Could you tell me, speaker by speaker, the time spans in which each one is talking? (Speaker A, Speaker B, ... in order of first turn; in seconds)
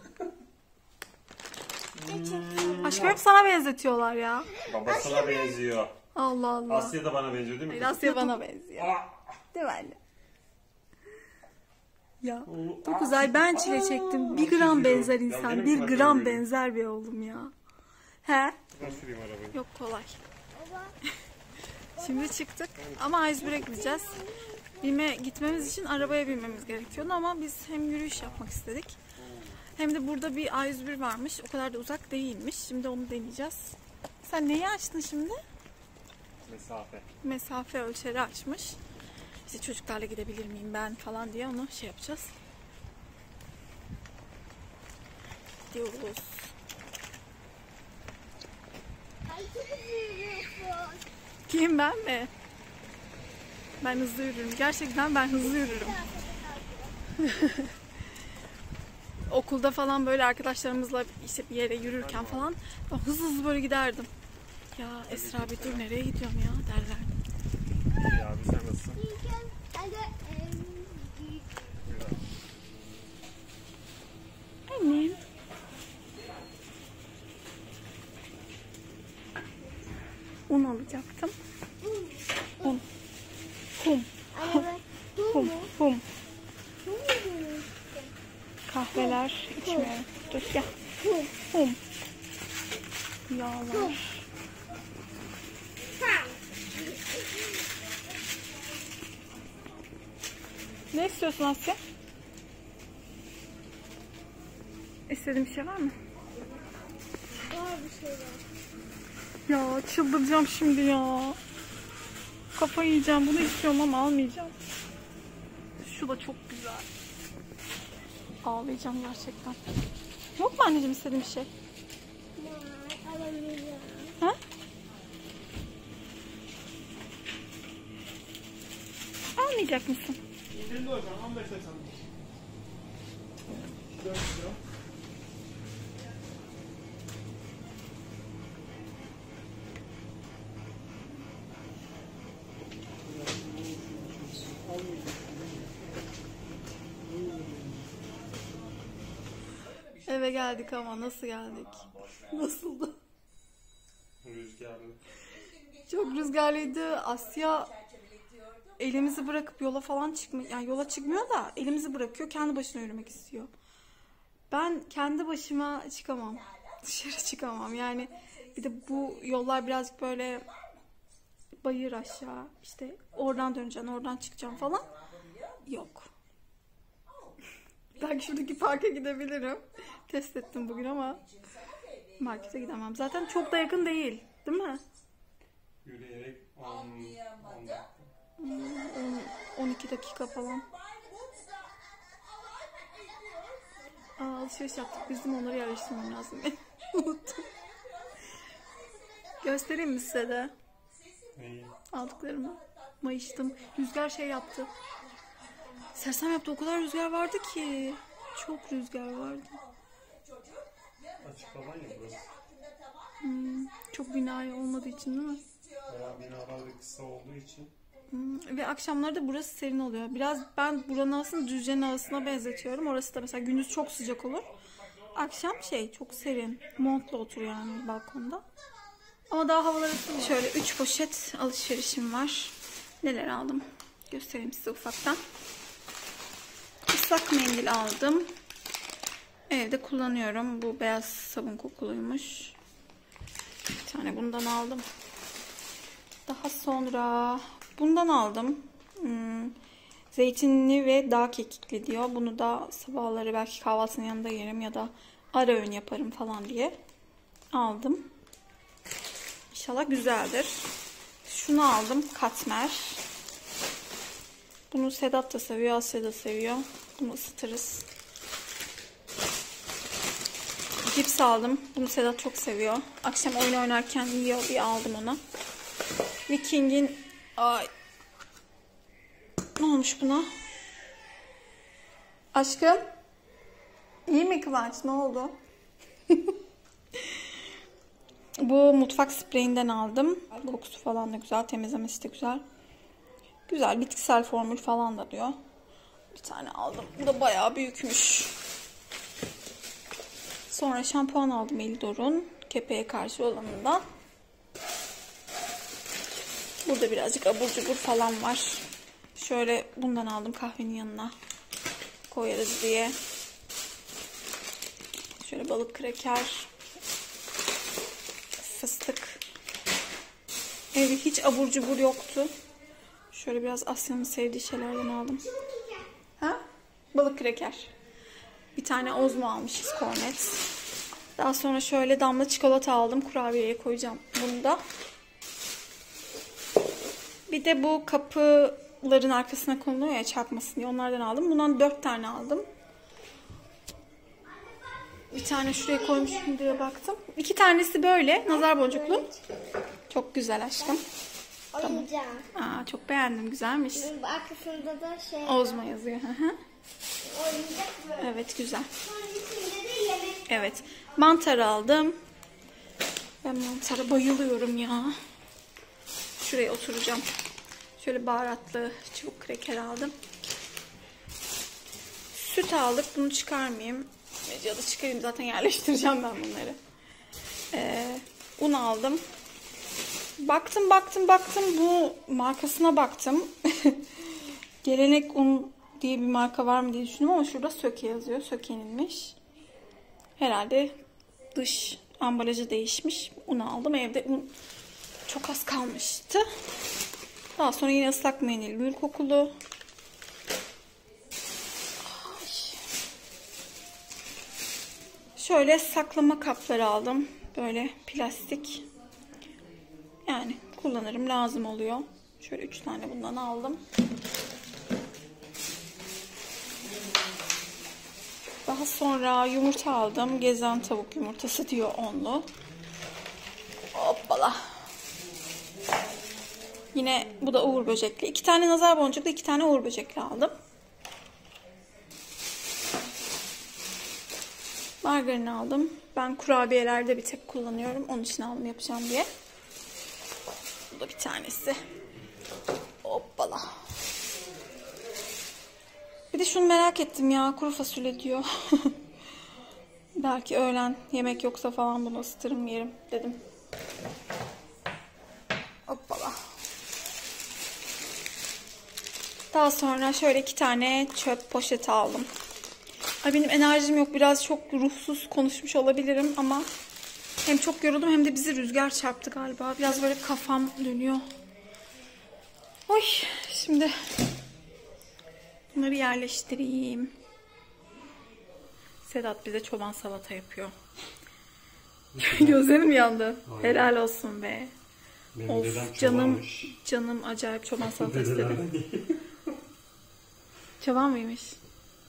Speaker A: 1.9-3.2, 4.7-5.9, 6.7-9.4, 12.4-16.4, 18.7-19.6, 22.8-23.0, 25.5-27.2, 29.2-29.6, 36.4-37.1, 61.8-62.5, 65.1-65.9, 67.9-69.0, 71.8-72.2, 154.2-155.0, 185.8-188.1, 201.3-201.8, 211.2-212.3, 215.8-217.7, 481.9-482.4, 483.2-483.7, 485.1-486.6, 487.6-489.3
Speaker B: 2.0-3.1, 4.7-5.6, 20.5-20.9, 22.0-22.4, 23.4-25.0, 49.2-51.0, 55.4-57.0, 69.0-71.8, 81.8-82.8, 84.3-85.7, 86.8-88.1, 88.9-89.9, 90.9-91.3, 96.9-97.2, 107.5-108.4, 122.4-124.2, 325.3-325.9, 345.7-346.6, 348.3-349.2, 351.5-352.3, 353.7-355.6, 357.1-358.1, 358.8-360.4
Speaker C: 2.8-4.5, 6.1-7.0, 7.7-8.9, 9.5-10.0, 12.2-17.5, 18.2-18.8, 19.5-20.2, 22.0-24.2, 24.8-29.0, 29.8-35.4, 37.2-38.8, 39.5-42.3, 45.7-46.5, 51.5-52.3, 53.8-56.0, 57.2-57.7, 59.3-64.1, 64.7-67.1, 74.7-75.2, 80.5-81.3, 83.8-84.6, 85.3-86.0, 88.7-90.7, 91.5-91.8, 93.3-94.2, 100.9-101.8, 105.1-106.0, 109.5-111.4, 112.5-114.5, 115.8-116.8, 118.4-119.6, 120.4-121.5, 129.3-130.2, 150.0-152.9, 155.9-157.7, 158.8-163.5, 164.5-170.4, 171.6-174.9, 175.6-176.1, 177.9-181.2, 182.2-184.8, 188.4-190.7, 194.2-197.4, 199.4-200.5, 201.9-204.7, 205.9-209.6, 213.2-215.4, 218.1-224.5, 225.1-228.4, 229.3-235.2, 236.9-238.3, 239.5-242.6, 243.8-244.8, 246.2-249.6, 250.1-256.8, 257.5-258.1, 259.5-260.7, 261.2-263.0, 264.7-267.9, 270.8-275.2, 276.3-277.7, 279.6-280.3, 282.3-282.8, 284.1-285.3, 288.4-292.4, 293.5-295.4, 296.1-298.3, 300.5-303.8, 306.6-308.6, 309.1-311.1, 312.1-312.9, 315.2-316.5, 318.4-319.2, 320.7-322.3, 323.1-325.3, 326.9-327.7, 328.5-330.4, 331.1-334.6, 337.3-342.4, 345.1-349.1, 349.9-350.8, 351.6-353.9, 355.2-356.4, 358.0-358.7, 360.3-362.0, 363.2-364.9, 366.2-367.1, 367.8-369.9, 372.1-376.6, 377.5-379.0, 380.2-389.2, 390.2-390.8, 391.3-394.3, 395.1-396.2, 397.4-399.3, 401.8-402.6, 405.2-408.6, 410.1-413.6, 418.4-422.3, 423.7-424.4, 426.7-430.3, 434.8-439.1, 440.7-441.6, 442.8-443.4, 446.1-448.7, 450.0-453.2, 455.7-456.2, 459.3-462.1, 463.0-466.5, 467.2-471.1, 472.7-473.7, 475.5-476.9, 478.8-480.5, 482.0-484.5, 485.3-488.4, 490.6-491.4
Speaker D: 130.7-131.9, 134.0-134.4, 143.1-145.7, 147.1-147.8